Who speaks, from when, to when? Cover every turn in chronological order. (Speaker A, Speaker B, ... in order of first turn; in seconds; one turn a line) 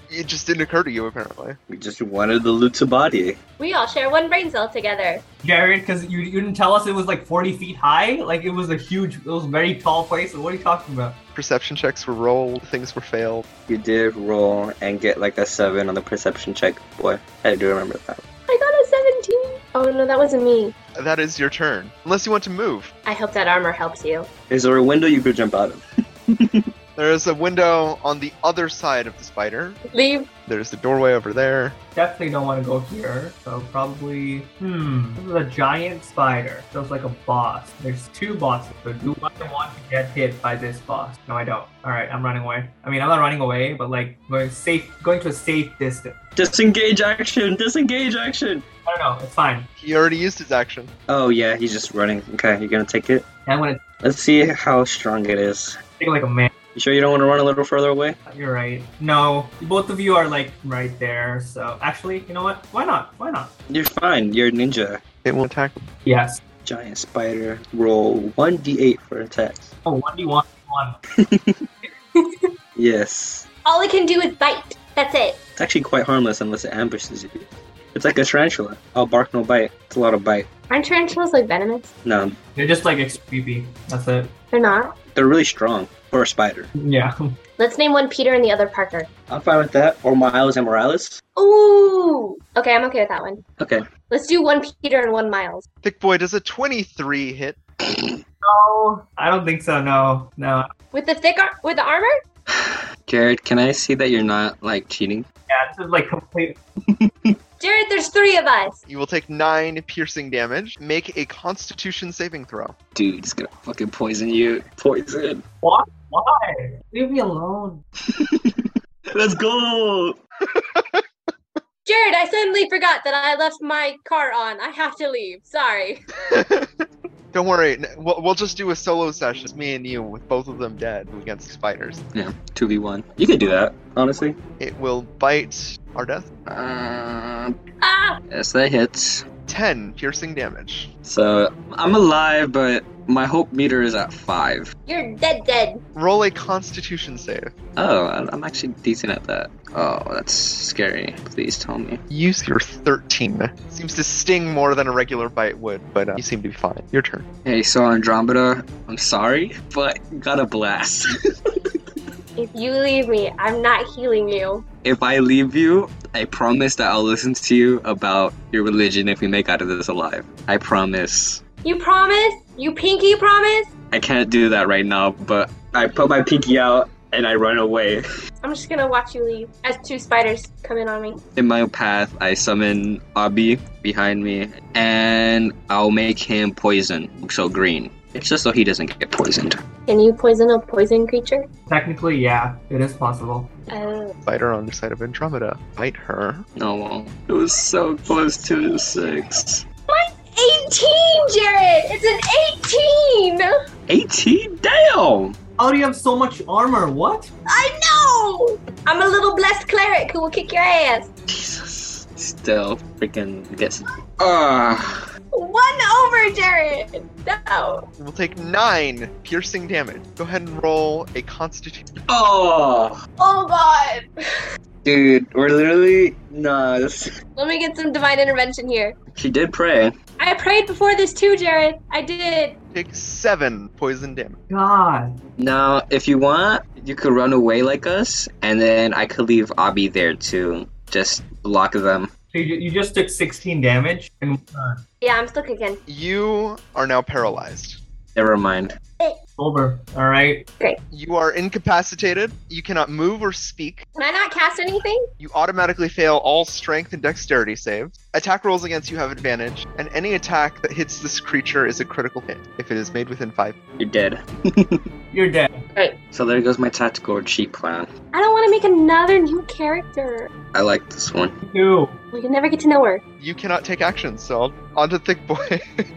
Speaker A: 0.1-1.6
Speaker B: 1.7-3.4
Speaker C: 3.6-5.2
Speaker D: 5.4-11.2
Speaker A: 11.3-13.4
Speaker B: 13.7-18.2
Speaker C: 18.5-20.7
Speaker A: 20.9-22.9
Speaker C: 23.1-24.3
Speaker B: 24.5-26.6
Speaker A: 26.9-29.8
Speaker C: 29.9-30.3
Speaker A: 30.5-31.8
Speaker D: 31.9-46.1
Speaker B: 46.4-48.6
Speaker D: 48.9-49.7
Speaker A: 49.8-50.9
Speaker B: 51.1-53.2
Speaker D: 53.5-53.8
Speaker B: 54.0-55.8
Speaker D: 56.0-56.5
Speaker B: 56.7-58.2
Speaker D: 58.3-63.5
Speaker B: 63.7-65.0
Speaker A: 65.2-65.8
Speaker D: 66.0-66.4
Speaker B: 66.6-69.7
Speaker D: 69.8-71.0
Speaker B: 71.2-71.6
Speaker C: 72.2-72.5
Speaker B: 72.8-73.5
Speaker C: 73.6-75.4
Speaker B: 75.6-80.5
Speaker C: 80.7-81.9
Speaker B: 82.0-82.3
Speaker D: 82.5-84.3
Speaker C: 84.5-84.9
Speaker B: 85.1-86.7
Speaker D: 86.8-87.3
Speaker C: 87.6-89.1
Speaker B: 89.3-91.2
Speaker C: 91.3-93.4
Speaker B: 93.6-93.8
Speaker C: 94.1-95.6
Speaker A: 95.8-97.6
Speaker B: 97.8-98.2
Speaker D: 98.4-100.7
Speaker C: 100.9-102.2
Speaker B: 102.5-105.2
Speaker D: 105.5-106.6
Speaker B: 106.9-107.3
Speaker C: 107.6-108.8
Speaker A: 108.9-112.7
Speaker B: 112.9-115.4
Speaker D: 115.6-117.8
Speaker B: 118.1-120.2
Speaker A: 120.4-121.0
Speaker C: 121.8-126.0
Speaker A: 126.3-132.0
Speaker B: 132.1-134.4
Speaker A: 134.6-136.3
Speaker B: 136.5-137.5
Speaker C: 137.8-138.2
Speaker B: 138.3-139.2
Speaker A: 139.5-140.9
Speaker B: 141.0-144.7
Speaker C: 144.9-145.8
Speaker A: 145.9-147.5
Speaker B: 147.8-152.0
Speaker A: 152.1-157.2
Speaker B: 157.4-161.8
Speaker C: 162.4-164.6
Speaker B: 164.8-171.4
Speaker C: 171.6-173.7
Speaker B: 173.9-178.0
Speaker C: 178.4-181.2
Speaker B: 181.3-189.6
Speaker C: 189.9-191.5
Speaker D: 191.7-193.5
Speaker C: 193.7-194.1
Speaker A: 194.2-196.4
Speaker B: 196.6-199.6
Speaker C: 199.9-203.5
Speaker B: 203.9-205.3
Speaker D: 205.6-207.3
Speaker C: 207.5-211.1
Speaker B: 211.3-215.0
Speaker C: 215.3-217.8
Speaker A: 218.0-221.8
Speaker B: 222.1-223.0
Speaker C: 223.2-224.4
Speaker B: 224.8-227.1
Speaker C: 227.3-228.9
Speaker B: 229.1-229.9
Speaker C: 230.2-232.6
Speaker A: 232.7-234.4
Speaker D: 234.5-235.2
Speaker B: 235.4-242.1
Speaker D: 242.3-244.8
Speaker C: 245.0-245.8
Speaker A: 245.9-247.8
Speaker B: 248.1-248.7
Speaker D: 249.4-250.4
Speaker A: 250.9-253.8
Speaker C: 253.9-255.1
Speaker A: 255.2-263.6
Speaker B: 263.8-264.8
Speaker D: 265.1-265.6
Speaker B: 266.1-267.9
Speaker C: 268.1-270.3
Speaker B: 270.5-271.3
Speaker D: 271.4-272.0
Speaker C: 272.1-273.0
Speaker A: 273.2-275.8